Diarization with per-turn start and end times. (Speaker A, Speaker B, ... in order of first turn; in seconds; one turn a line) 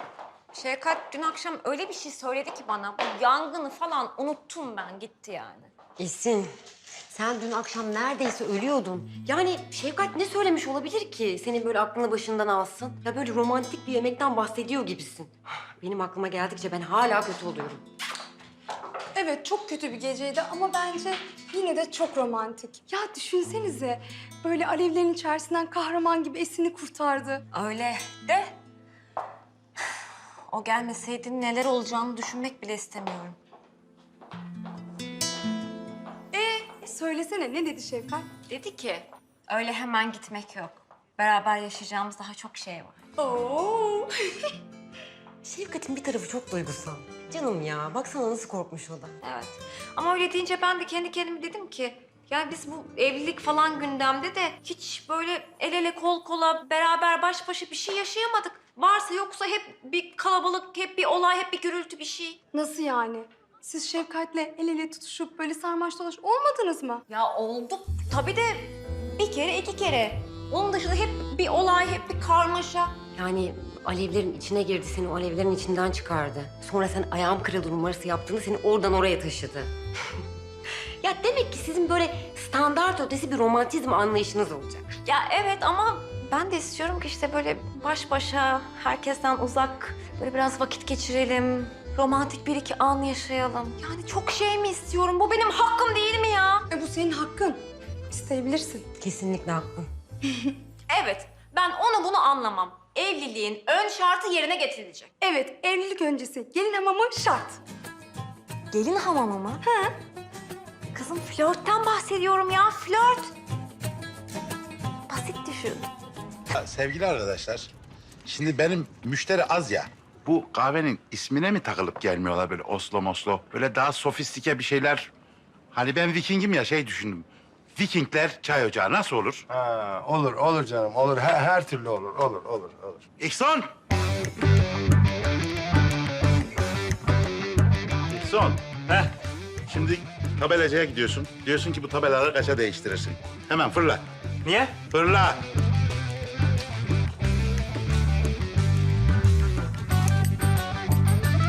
Speaker A: 0.5-5.7
Speaker B: 6.0-6.5
Speaker B: 7.1-17.8
Speaker C: 19.1-27.4
Speaker A: 27.5-28.5
Speaker A: 30.5-33.4
Speaker C: 36.3-38.3
Speaker A: 38.5-43.0
Speaker C: 43.3-44.1
Speaker B: 45.4-49.1
Speaker A: 49.2-62.4
Speaker C: 62.5-67.0
Speaker A: 67.1-73.0
Speaker B: 73.2-79.7
Speaker B: 81.0-84.9
Speaker A: 85.0-96.7
Speaker C: 96.7-98.8
Speaker B: 99.0-99.9
Speaker A: 100.9-105.1
Speaker C: 105.2-107.6
Speaker A: 108.7-109.6
Speaker A: 110.9-113.3
Speaker A: 115.1-115.9
Speaker D: 116.6-117.7
Speaker D: 118.2-125.1
Speaker D: 125.7-129.4
Speaker E: 129.5-133.1
Speaker D: 133.2-133.7
Speaker D: 138.1-138.6
Speaker D: 139.7-144.0
Speaker D: 144.8-145.4